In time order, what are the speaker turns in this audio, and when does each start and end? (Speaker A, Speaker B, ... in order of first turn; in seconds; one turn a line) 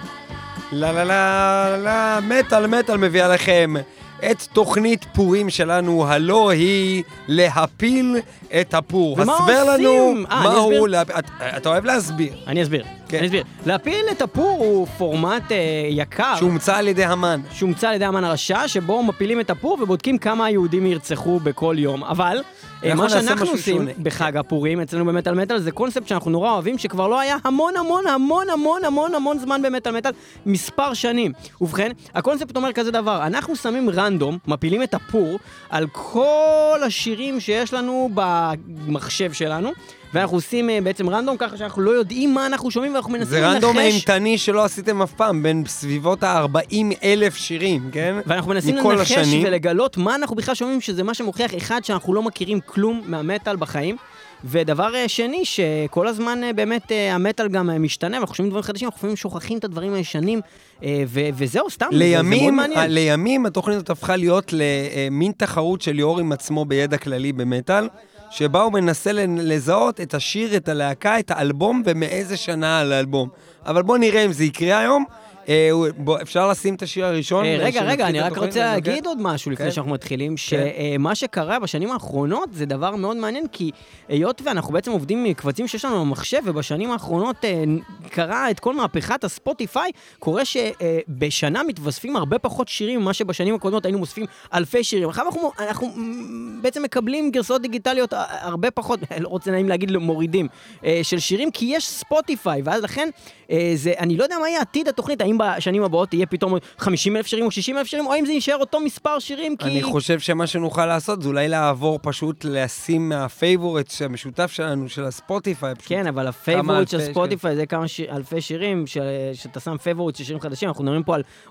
Speaker A: 0.7-12.4
Speaker B: 9.1-10.9
Speaker B: 12.4-16.5
Speaker A: 16.3-17.5
Speaker B: 17.5-44.1
Speaker A: 22.8-24.3
Speaker A: 43.2-49.5
Speaker B: 48.2-62.9
Speaker A: 61.9-79.0
Speaker B: 77.4-109.9
Speaker A: 109.6-117.4
Speaker B: 115.9-121.2